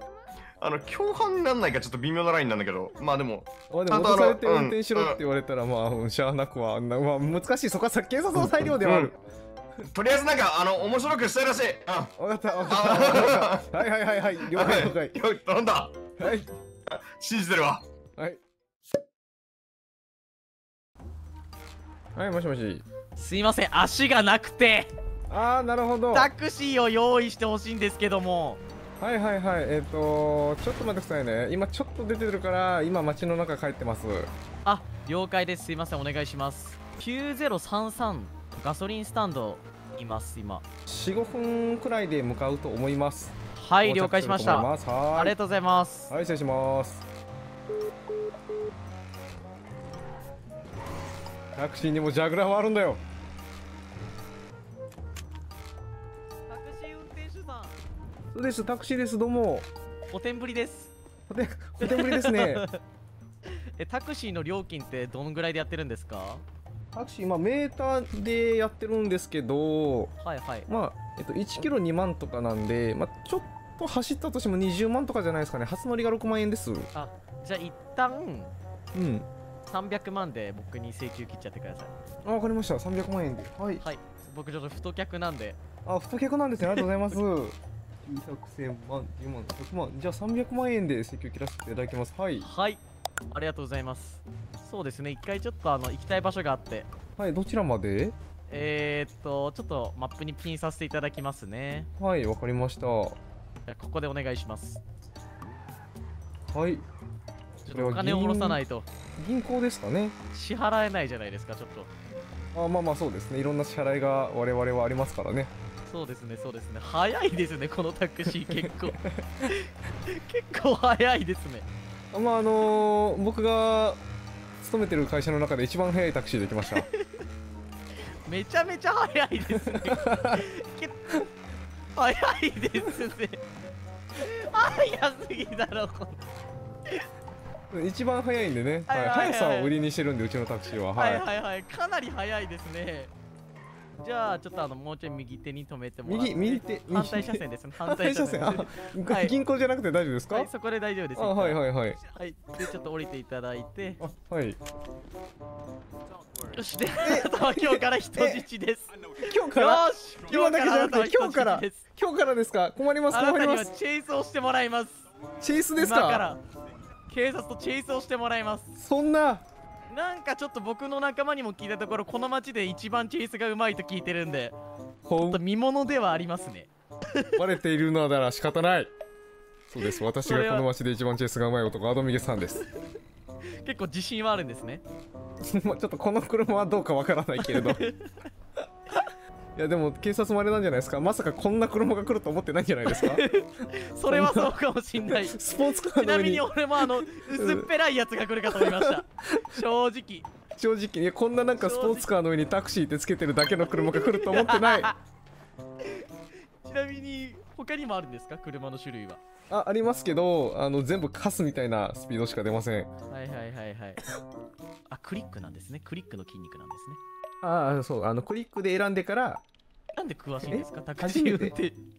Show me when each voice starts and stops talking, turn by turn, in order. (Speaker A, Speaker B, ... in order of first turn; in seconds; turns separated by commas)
Speaker A: 0.6-5.2, Speaker B: 3.7-9.2, Speaker A: 8.3-9.1, Speaker A: 9.9-13.7, Speaker B: 12.2-15.2, Speaker A: 14.4-16.1, Speaker B: 16.2-16.5, Speaker A: 16.9-17.8, Speaker B: 22.1-22.8, Speaker C: 23.1-24.9, Speaker B: 25.3-26.3, Speaker C: 26.1-28.6, Speaker B: 29.0-34.3, Speaker C: 34.6-40.6, Speaker B: 40.9-45.4, Speaker C: 43.5-46.1, Speaker B: 46.1-47.1, Speaker B: 51.5-53.0, Speaker C: 56.5-57.7, Speaker B: 58.3-59.7, Speaker C: 60.1-60.9, Speaker B: 61.3-62.6, Speaker C: 61.8-62.8, Speaker C: 63.8-66.4, Speaker B: 66.9-70.1, Speaker C: 70.2-70.7, Speaker B: 70.7-76.9, Speaker C: 76.9-78.5, Speaker B: 78.9-79.3, Speaker C: 79.7-81.9, Speaker B: 82.2-83.8, Speaker C: 83.8-85.6, Speaker B: 85.8-92.5, Speaker C: 86.6-86.9, Speaker C: 92.4-96.9, Speaker B: 97.2-98.2, Speaker C: 98.5-101.9, Speaker B: 102.0-103.2, Speaker C: 103.7-104.8, Speaker B: 106.5-106.9, Speaker C: 107.7-108.8, Speaker B: 107.7-108.6, Speaker B: 109.2-110.2, Speaker C: 110.3-111.9, Speaker B: 112.5-115.5, Speaker C: 115.9-121.7, Speaker B: 118.3-119.5, Speaker B: 122.1-124.0, Speaker B: 124.6-126.9, Speaker C: 126.8-127.2, Speaker C: 128.2-131.1, Speaker B: 129.6-130.4, Speaker C: 131.9-133.4, Speaker C: 134.1-136.2, Speaker B: 137.7-141.2, Speaker C: 138.9-139.7, Speaker C: 140.9-143.1, Speaker C: 144.0-149.3, Speaker B: 146.0-150.5, Speaker C: 150.3-154.0, Speaker B: 151.2-152.0, Speaker B: 154.0-154.6, Speaker C: 156.5-161.8, Speaker B: 157.0-158.5, Speaker B: 159.2-163.7, Speaker C: 163.1-165.0, Speaker B: 165.4-166.3, Speaker C: 165.8-166.4, Speaker C: 167.1-168.7, Speaker B: 168.8-169.4, Speaker C: 169.9-174.6, Speaker B: 175.0-175.4, Speaker C: 175.2-177.3, Speaker B: 177.3-178.9, Speaker B: 179.7-182.6, Speaker C: 179.8-180.7, Speaker C: 183.6-184.8, Speaker B: 185.4-187.8, Speaker C: 187.4-188.1, Speaker B: 189.5-193.2, Speaker C: 192.9-200.3, Speaker B: 194.1-197.7, Speaker B: 198.6-199.6, Speaker B: 200.6-204.9, Speaker C: 201.5-202.1, Speaker C: 203.7-205.0, Speaker C: 205.8-206.1, Speaker C: 206.6-209.2, Speaker B: 209.5-212.9, Speaker C: 213.1-214.0, Speaker C: 214.9-217.0, Speaker B: 217.4-219.4, Speaker C: 219.9-221.8, Speaker B: 220.4-221.6